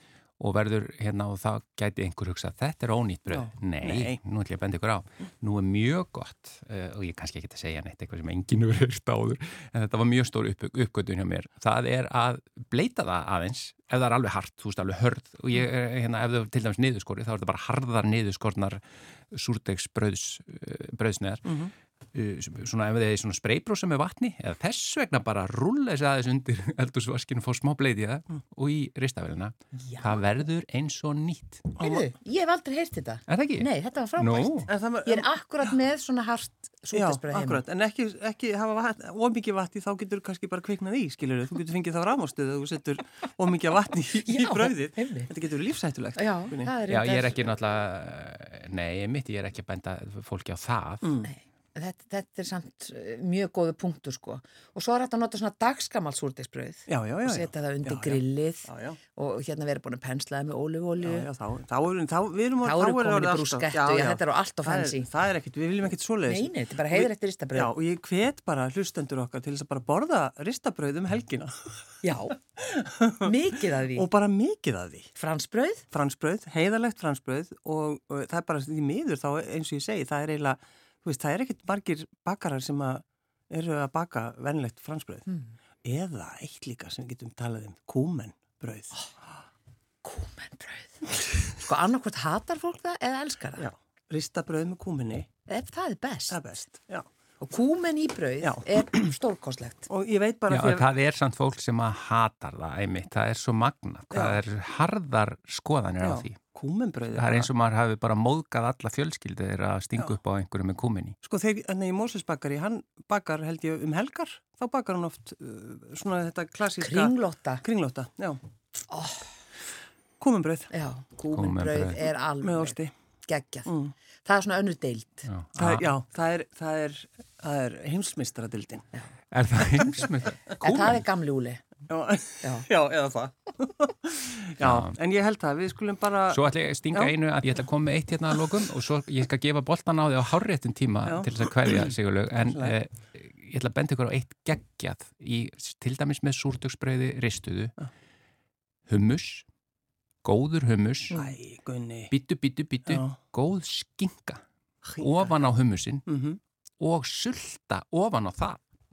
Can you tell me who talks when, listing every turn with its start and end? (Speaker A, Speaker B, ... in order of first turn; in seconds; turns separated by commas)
Speaker A: 0.4-21.6, Speaker B: 3.3-4.2, Speaker B: 21.5-21.7, Speaker A: 22.1-31.7, Speaker C: 29.9-30.2, Speaker C: 31.8-37.6, Speaker A: 33.3-34.7, Speaker B: 34.7-35.3, Speaker B: 36.9-46.7, Speaker C: 44.3-45.3, Speaker C: 46.2-47.4, Speaker A: 46.9-51.1, Speaker B: 51.0-51.3, Speaker C: 51.2-61.3, Speaker B: 56.9-59.0, Speaker B: 61.0-71.5, Speaker C: 62.6-65.1, Speaker C: 66.3-67.7, Speaker C: 72.0-72.4, Speaker B: 72.6-73.3, Speaker C: 73.2-74.1, Speaker B: 73.9-75.1, Speaker C: 75.2-75.8, Speaker B: 75.9-85.3, Speaker B: 85.8-89.0, Speaker C: 90.0-93.7, Speaker B: 93.6-95.3, Speaker C: 95.5-96.4, Speaker B: 96.3-97.1, Speaker C: 97.5-99.9, Speaker B: 98.4-99.1, Speaker B: 99.9-100.9, Speaker A: 100.5-106.5, Speaker B: 104.1-104.4, Speaker B: 106.0-107.5, Speaker A: 107.1-111.2, Speaker B: 111.2-118.4, Speaker C: 116.8-117.6, Speaker C: 118.9-119.3, Speaker B: 120.2-120.7, Speaker C: 120.7-123.7, Speaker A: 121.3-122.0, Speaker B: 122.4-122.9, Speaker B: 123.7-123.9, Speaker C: 124.2-125.3, Speaker A: 125.3-125.9, Speaker B: 125.6-128.9, Speaker A: 129.3-131.0, Speaker C: 130.6-131.6, Speaker B: 131.9-137.2, Speaker A: 134.6-134.9, Speaker A: 136.3-147.7, Speaker B: 141.1-142.8, Speaker A: 148.9-149.5, Speaker A: 150.2-151.2, Speaker B: 151.1-152.1, Speaker A: 152.1-154.4, Speaker B: 152.9-153.2, Speaker B: 154.9-155.3, Speaker A: 155.0-156.1, Speaker B: 156.1-156.4, Speaker A: 156.8-158.6